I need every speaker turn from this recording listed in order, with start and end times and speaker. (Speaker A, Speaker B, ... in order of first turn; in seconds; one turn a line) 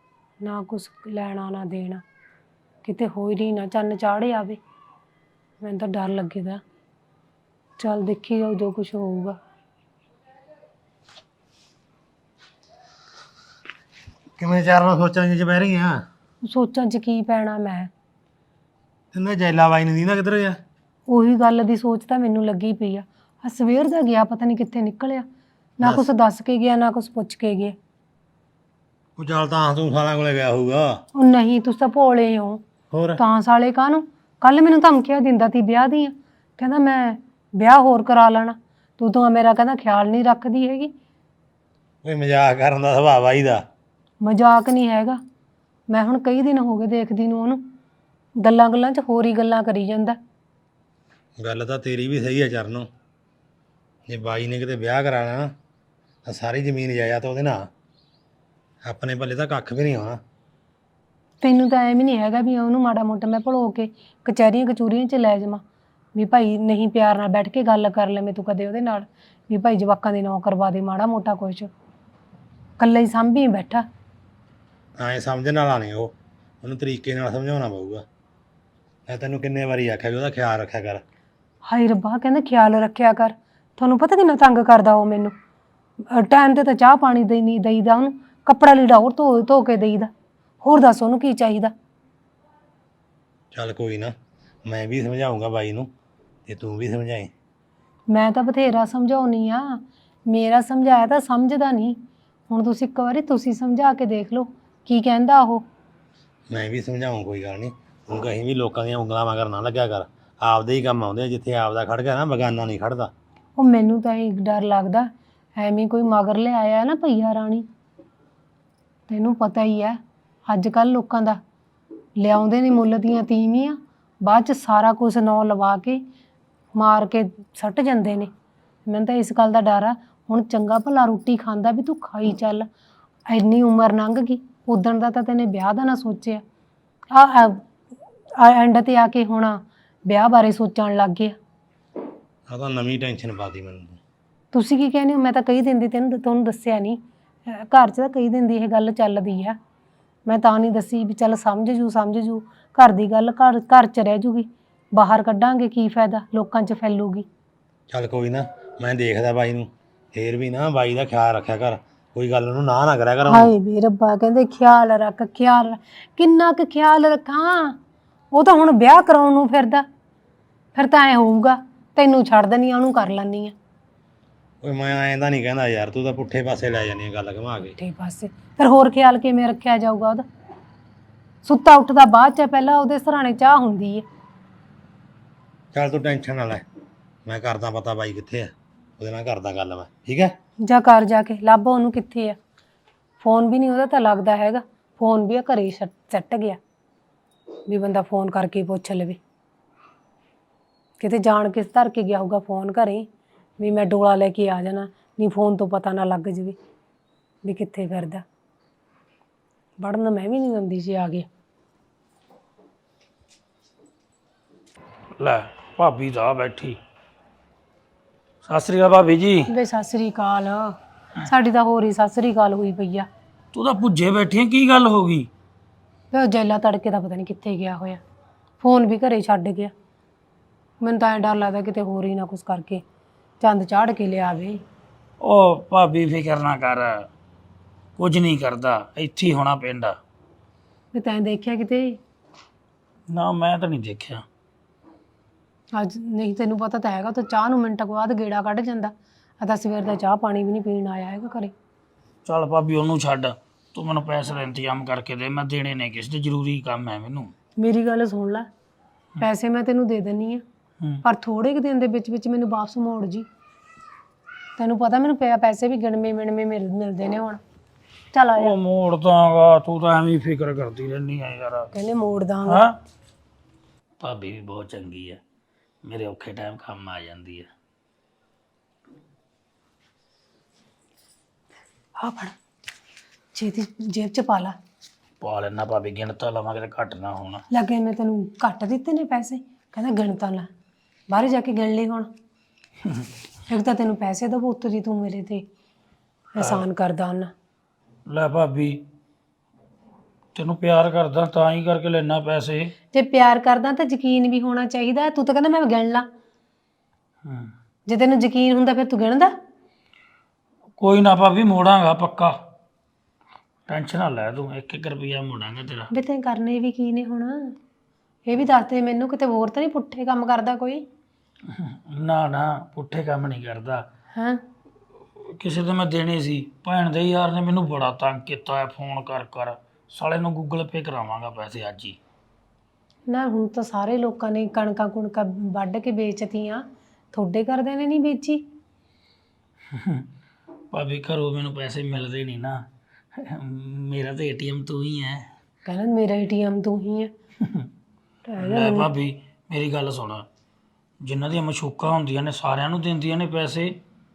Speaker A: 0.4-2.0
Speaker A: 2.8-4.6
Speaker A: 5.6-6.6
Speaker A: 7.8-9.4
Speaker B: 14.4-16.1
Speaker A: 16.4-17.9
Speaker B: 19.1-20.6
Speaker A: 21.1-25.3
Speaker A: 25.8-27.8
Speaker B: 25.8-26.1
Speaker B: 29.2-31.0
Speaker A: 31.1-32.6
Speaker B: 32.9-33.2
Speaker A: 33.1-40.9
Speaker B: 42.0-43.6
Speaker A: 44.2-45.2
Speaker A: 45.9-47.6
Speaker A: 48.4-50.2
Speaker B: 51.4-52.9
Speaker B: 54.1-55.5
Speaker B: 56.2-57.7
Speaker B: 58.8-60.2
Speaker A: 61.4-65.6
Speaker A: 66.1-71.7
Speaker A: 72.8-73.8
Speaker B: 75.0-78.0
Speaker B: 79.1-81.0
Speaker A: 81.6-85.3
Speaker A: 86.0-90.1
Speaker A: 90.6-91.7
Speaker B: 93.5-94.1
Speaker B: 94.7-95.9
Speaker B: 96.5-97.3
Speaker A: 98.1-105.7
Speaker B: 106.5-113.1
Speaker A: 113.6-117.7
Speaker A: 119.1-121.4
Speaker A: 122.2-126.0
Speaker A: 126.7-128.3
Speaker A: 128.9-132.7
Speaker A: 133.3-136.4
Speaker A: 137.1-137.6
Speaker A: 138.4-141.3
Speaker B: 142.5-144.0
Speaker A: 144.5-149.6
Speaker A: 150.2-157.2
Speaker B: 157.9-163.5
Speaker A: 163.3-167.8
Speaker A: 168.3-169.8
Speaker A: 170.7-173.5
Speaker B: 174.6-177.8
Speaker A: 177.8-180.2
Speaker A: 181.4-184.1
Speaker B: 185.7-186.6
Speaker B: 187.2-190.3
Speaker A: 190.6-192.4
Speaker A: 193.2-196.6
Speaker A: 197.7-199.2
Speaker A: 201.0-206.6
Speaker A: 207.4-208.2
Speaker A: 209.8-211.3
Speaker C: 215.2-216.8
Speaker C: 218.4-219.5
Speaker A: 219.5-223.1
Speaker C: 223.5-225.3
Speaker A: 226.1-228.0
Speaker A: 228.6-229.7
Speaker A: 230.8-232.8
Speaker A: 233.4-234.6
Speaker C: 235.2-237.1
Speaker C: 238.0-240.0
Speaker A: 240.9-242.0
Speaker C: 243.1-244.2
Speaker A: 245.7-251.5
Speaker C: 252.2-257.3
Speaker A: 257.6-258.5
Speaker A: 259.2-260.4
Speaker A: 261.0-263.3
Speaker A: 264.6-267.4
Speaker A: 268.1-268.5
Speaker C: 268.4-271.7
Speaker A: 271.7-272.6
Speaker C: 272.4-272.7
Speaker C: 274.0-275.2
Speaker C: 275.8-277.5
Speaker A: 282.0-282.3
Speaker A: 283.3-284.6
Speaker C: 285.2-287.4
Speaker A: 287.5-290.5
Speaker A: 291.1-292.1
Speaker A: 293.5-295.4
Speaker A: 296.3-297.3
Speaker C: 296.4-296.6
Speaker C: 298.1-298.8
Speaker C: 300.3-302.7
Speaker A: 302.9-306.1
Speaker C: 307.2-307.5
Speaker A: 307.9-309.3
Speaker C: 310.8-312.4
Speaker C: 313.7-315.9
Speaker A: 315.9-317.5
Speaker A: 318.2-320.8
Speaker C: 321.5-323.8
Speaker A: 324.1-324.4
Speaker C: 325.2-332.0
Speaker A: 333.1-338.4
Speaker C: 339.7-340.1
Speaker C: 340.7-345.3
Speaker A: 345.6-347.1
Speaker C: 347.4-347.7
Speaker A: 348.3-348.9
Speaker C: 348.4-350.2
Speaker C: 351.0-353.8